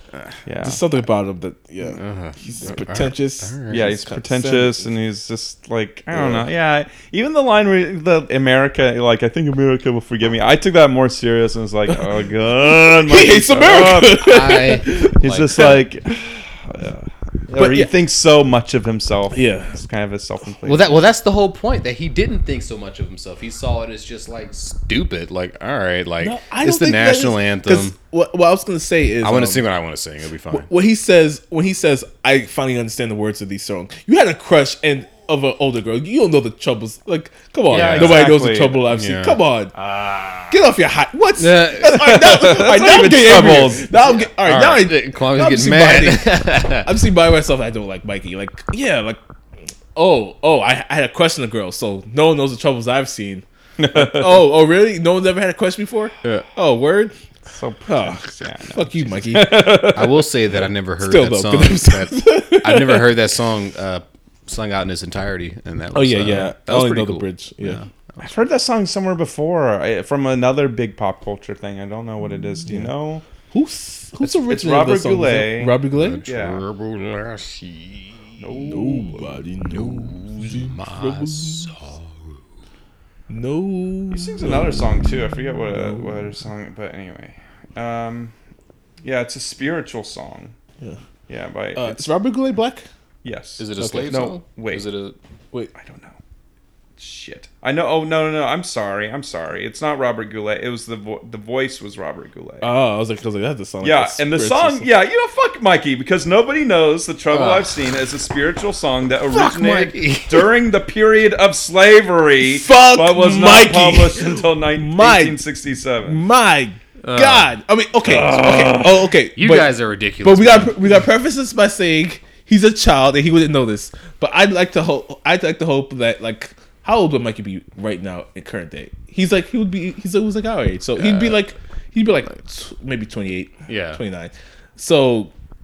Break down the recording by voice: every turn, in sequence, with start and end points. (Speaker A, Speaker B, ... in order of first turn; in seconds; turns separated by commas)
Speaker A: 0.5-0.8, Speaker B: 0.6-4.9, Speaker C: 1.9-3.9, Speaker A: 3.7-14.4, Speaker B: 6.1-6.5, Speaker B: 12.9-15.7, Speaker C: 14.0-15.7, Speaker A: 15.2-21.0, Speaker B: 17.5-17.9, Speaker B: 19.3-19.7, Speaker C: 20.6-27.9, Speaker B: 26.2-29.6, Speaker C: 29.2-30.7, Speaker B: 30.5-39.7, Speaker A: 37.7-38.8, Speaker C: 37.7-38.4, Speaker C: 38.9-39.4, Speaker A: 39.7-40.6, Speaker B: 40.5-49.2, Speaker C: 41.4-43.7, Speaker A: 41.9-43.9, Speaker C: 44.4-46.9, Speaker B: 50.0-57.1, Speaker A: 53.8-54.4, Speaker A: 57.5-60.3, Speaker B: 57.9-59.7, Speaker C: 59.8-67.9, Speaker B: 61.0-63.2, Speaker B: 65.9-67.8, Speaker A: 68.2-73.2, Speaker B: 73.5-76.2, Speaker A: 74.3-76.6, Speaker C: 75.9-78.4, Speaker A: 78.4-79.2, Speaker B: 78.6-81.8, Speaker C: 79.7-82.4, Speaker B: 83.3-84.8, Speaker A: 84.1-88.3, Speaker B: 85.8-86.2, Speaker A: 89.0-90.5, Speaker A: 91.3-92.1, Speaker B: 91.8-92.9, Speaker A: 93.2-94.9, Speaker C: 93.6-95.2, Speaker B: 93.8-94.1, Speaker A: 95.8-96.2, Speaker A: 97.0-102.7, Speaker B: 102.6-104.9, Speaker A: 103.8-116.2, Speaker C: 107.3-107.8, Speaker C: 109.3-110.5, Speaker B: 112.5-115.4, Speaker B: 116.0-135.3, Speaker C: 117.0-117.5, Speaker A: 118.0-119.0, Speaker C: 119.4-120.8, Speaker C: 131.0-131.3, Speaker C: 133.7-134.0